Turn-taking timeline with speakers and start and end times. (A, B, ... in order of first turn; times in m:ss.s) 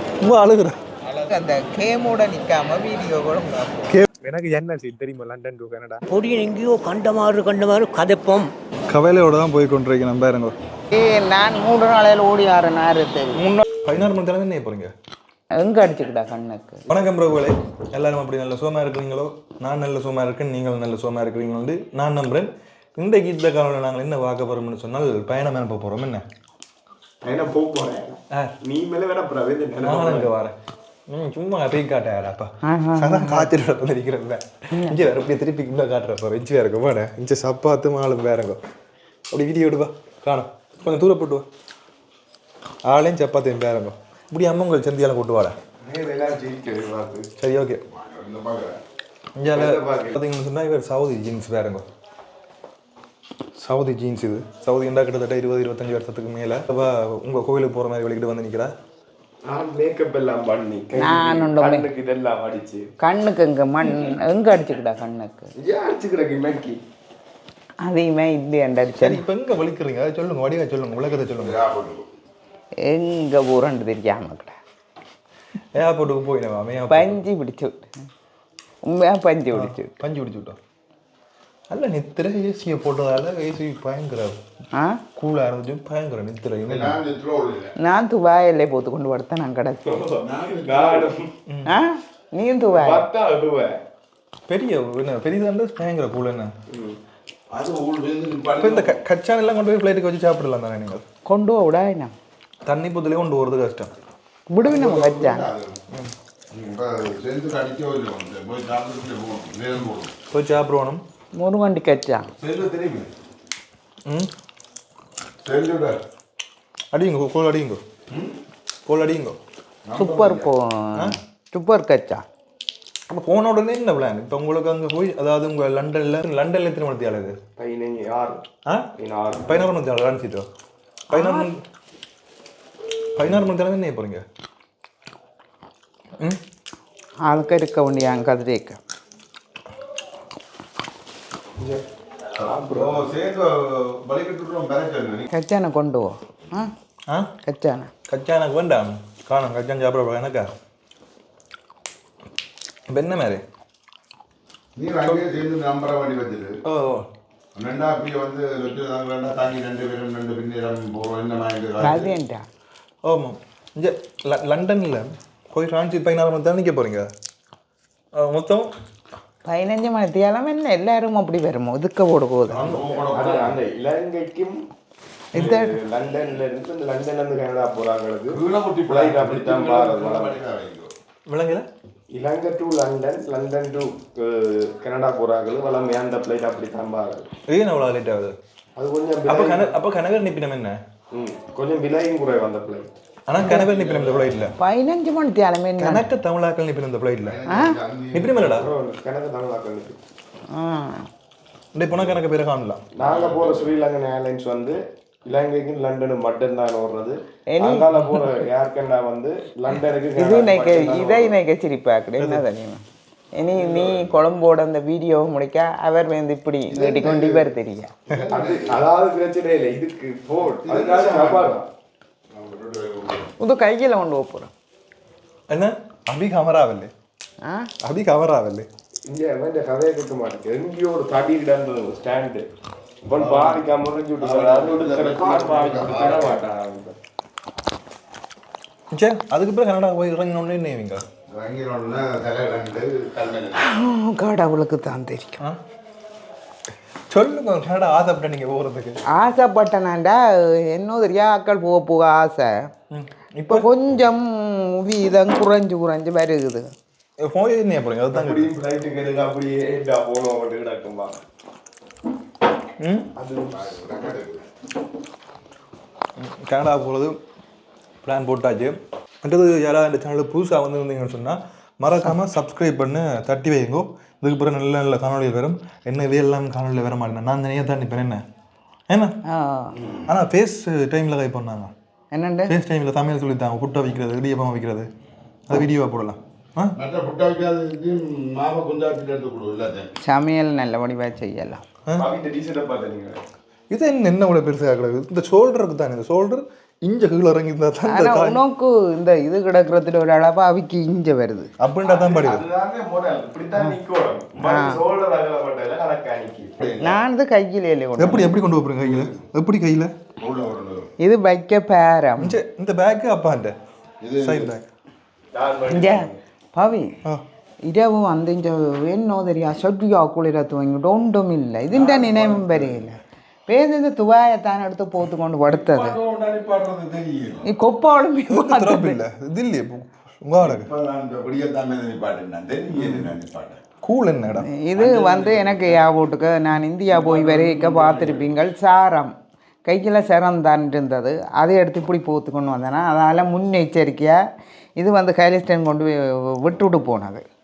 0:00.2-0:00.8 A
0:01.0-0:01.3 B
0:01.3-0:03.9 C
0:04.2-0:06.0 B
0:06.1-0:08.5 D
0:08.9-0:10.5 A
0:10.9-0:13.4 C
0:13.3-0:14.9 A
0:15.5-0:16.9 C
0:16.9-0:26.2 A
0:27.2-0:30.3 B
0:29.8-0:30.5 A
0:31.1-0:38.6 A
0:32.6-0:33.5 C
0:34.7-0:35.0 C
0:39.3-0:41.4 A
0:42.9-0:45.6 A
0:45.8-0:47.2 B
0:47.4-0:47.8 A
0:47.9-0:48.8 E
0:49.4-0:51.8 A
0:49.5-0:50.2 B
0:53.6-0:58.7 A
0:59.5-1:02.9 B
1:01.0-1:01.9 C
1:03.0-1:05.5 C
1:05.6-1:06.8 B
1:07.8-1:09.2 C
1:09.0-1:11.6 A
1:11.4-1:12.1 E
1:12.8-1:14.5 C
1:15.7-1:17.2 A
1:16.9-1:17.9 C
1:18.8-1:19.9 C
1:19.5-1:20.6 A
1:21.7-1:24.4 A
1:24.7-1:25.0 C
1:25.2-1:27.0 A
1:26.7-1:27.7 E
1:27.8-1:30.1 C
1:29.8-1:31.3 B
1:30.2-1:31.1 E
1:31.5-1:31.7 A
1:31.7-1:33.1 C
1:32.7-1:33.8 B
1:34.5-1:36.5 A
1:36.7-1:37.0 B
1:37.5-1:39.0 E
1:38.6-1:41.0 A
1:41.2-1:42.1 C
1:42.6-1:43.9 A
1:44.5-1:45.5 C
1:44.6-1:45.8 E
1:46.5-1:50.1 E
1:50.3-1:51.0 A
1:51.4-1:52.3 C
1:52.4-1:53.1 E
1:55.4-1:56.0 E
1:56.9-1:57.8 A
1:58.8-1:59.4 A
1:59.9-2:00.5 E
1:59.9-2:02.2 C
2:03.1-2:07.4 A
2:07.6-2:08.4 B
2:09.0-2:09.6 B
2:09.4-2:10.5 A
2:11.1-2:11.5 C
2:11.1-2:11.6 A
2:13.2-2:14.2 A
2:17.2-2:18.8 C
2:22.4-2:23.1 B
2:22.6-2:25.3 E
2:25.3-2:26.7 C
2:27.4-2:27.9 C
2:28.1-2:30.5 A
2:32.9-2:33.4 A
2:34.8-2:36.6 E
2:35.0-2:35.3 A
2:36.6-2:37.0 A
2:37.5-2:42.1 E
2:41.8-2:42.4 C
2:43.0-2:47.1 A
2:48.1-2:48.7 A
2:49.4-2:52.7 C
2:52.5-2:53.6 E
2:52.5-2:53.0 A
2:53.1-2:54.6 B
2:55.3-2:55.7 C
2:55.3-3:00.4 B
2:58.3-3:00.9 E
3:01.3-3:01.7 A
3:02.1-3:07.3 B
3:07.5-3:08.3 A
3:08.8-3:09.8 B
3:09.3-3:10.8 A
3:11.1-3:12.9 B
3:13.3-3:14.5 A
3:13.3-3:14.4 E
3:14.6-3:16.0 C
3:15.8-3:17.4 A
3:17.2-3:18.7 E
3:17.5-3:17.8 C
3:18.1-3:18.7 A
3:18.5-3:20.0 B
3:20.5-3:21.1 C
3:21.7-3:22.8 A
3:22.9-3:31.4 B
3:23.0-3:23.7 E
3:27.5-3:27.9 C
3:30.2-3:32.8 C
3:33.4-3:37.9 C
3:33.6-3:34.0 B
3:36.7-3:37.5 E
3:38.1-3:38.9 E
3:38.3-3:41.7 B
3:40.6-3:41.5 E
3:42.3-3:43.3 E
3:43.4-3:44.5 C
3:45.5-3:46.9 A
3:47.4-3:47.7 C
3:47.8-3:48.7 A
3:49.0-3:52.4 B
3:53.0-3:56.9 B
3:53.2-3:53.6 E
3:54.2-3:56.4 E
3:58.9-4:01.0 A
4:01.3-4:03.6 E
4:03.6-4:05.4 C
4:07.1-4:09.0 A
4:09.1-4:12.7 C
4:12.9-4:13.7 A
4:13.5-4:16.7 C
4:17.2-4:18.5 A
4:18.1-4:21.2 B
4:22.8-4:23.1 A
4:23.2-4:23.7 B
4:23.5-4:24.4 E
4:26.2-4:27.2 A
4:28.0-4:38.2 A
4:38.9-4:39.2 A
4:39.2-4:39.8 C
4:39.8-4:40.1 E
4:40.1-4:41.7 A
4:42.1-4:42.5 C
4:42.5-4:44.9 A
4:45.5-4:46.8 A
4:46.8-4:49.9 E
4:50.0-4:51.6 C
4:51.9-4:53.2 B
4:53.7-4:58.4 A
4:57.9-5:01.5 C
5:01.6-5:02.4 A
5:01.8-5:06.5 B
5:04.4-5:04.8 C
5:06.6-5:07.0 E
5:06.8-5:08.3 C
5:08.0-5:09.9 A
5:08.8-5:09.2 E
5:10.2-5:10.9 E
5:11.0-5:12.4 C
5:12.2-5:13.5 A
5:14.0-5:14.5 E
5:14.2-5:14.6 A
5:15.3-5:16.2 B
5:15.7-5:17.0 C
5:17.6-5:26.0 C
5:21.7-5:22.9 E
5:25.5-5:27.5 E
5:27.4-5:29.0 C
5:28.3-5:30.7 A
5:30.4-5:33.6 E
5:33.8-5:34.5 A
5:34.4-5:39.1 C
5:34.8-5:35.8 E
5:36.9-5:38.3 E
5:39.6-5:44.2 C
5:44.8-5:47.2 C